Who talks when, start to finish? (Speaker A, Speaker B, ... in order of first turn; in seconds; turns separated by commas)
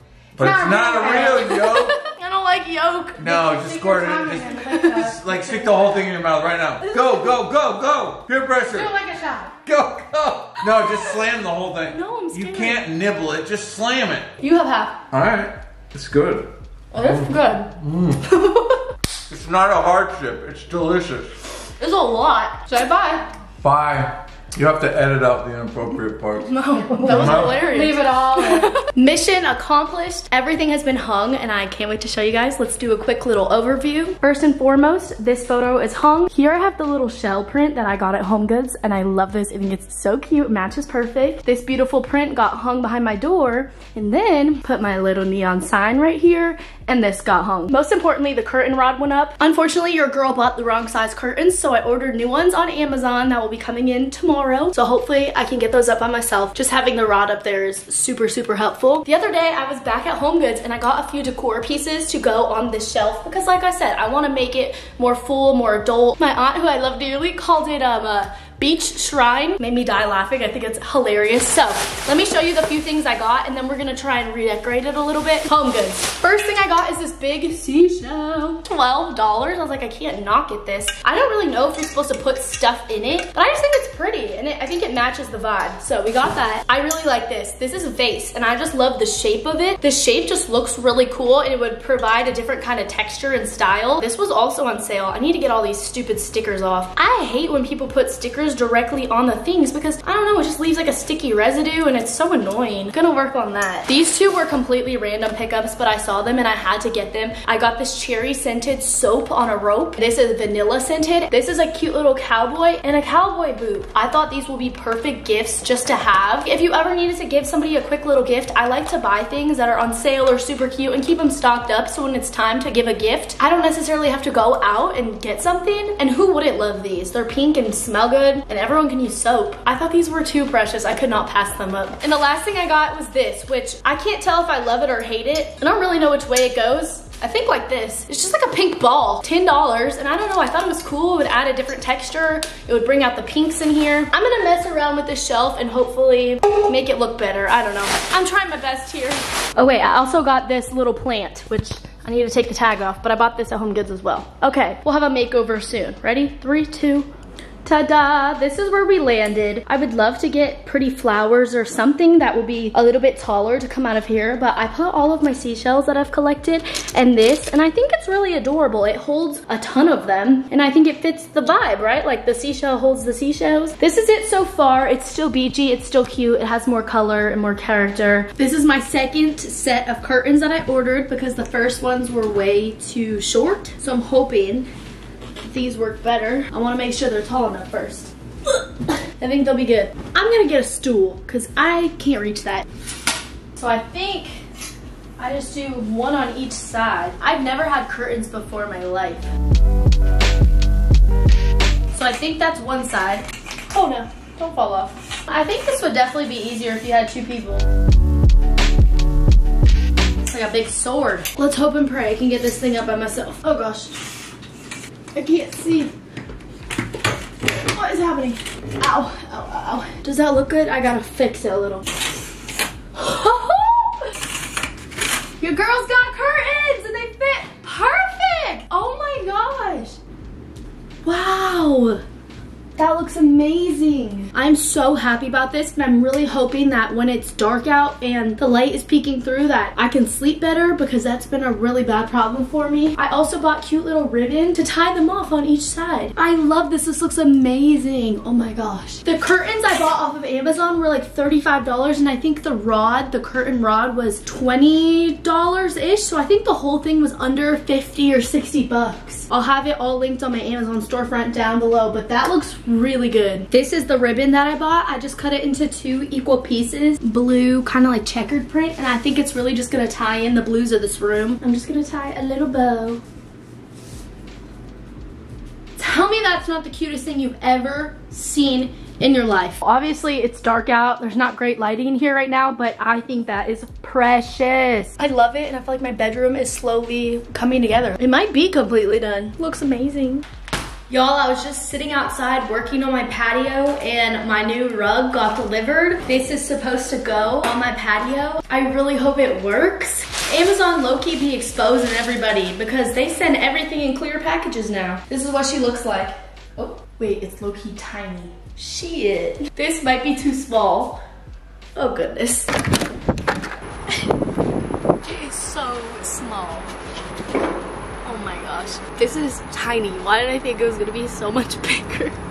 Speaker A: 0.4-1.7, Speaker B: 0.4-2.0, Speaker C: 1.3-3.5, Speaker B: 3.2-8.9, Speaker A: 3.4-5.9, Speaker C: 4.6-5.0, Speaker C: 6.8-7.4, Speaker A: 8.7-9.5, Speaker B: 9.7-14.3, Speaker C: 11.9-12.8, Speaker C: 14.4-15.0, Speaker B: 15.1-18.3, Speaker C: 16.9-17.7, Speaker C: 18.2-18.9, Speaker B: 19.3-21.4, Speaker C: 21.8-22.9, Speaker A: 22.7-23.2, Speaker B: 23.6-26.5, Speaker C: 26.4-157.1, Speaker A: 26.9-28.8, Speaker B: 27.1-27.6, Speaker C: 157.6-184.7, Speaker C: 185.4-192.7, Speaker C: 193.6-194.4, Speaker C: 195.2-199.3, Speaker C: 201.9-207.7, Speaker C: 210.2-214.0, Speaker C: 215.1-215.9, Speaker C: 217.5-221.9, Speaker C: 222.9-224.2, Speaker C: 225.4-230.0, Speaker C: 231.0-232.0, Speaker C: 232.8-273.0, Speaker C: 275.8-290.2, Speaker C: 290.9-311.0, Speaker C: 311.7-312.5, Speaker C: 315.0-316.7, Speaker C: 318.0-322.2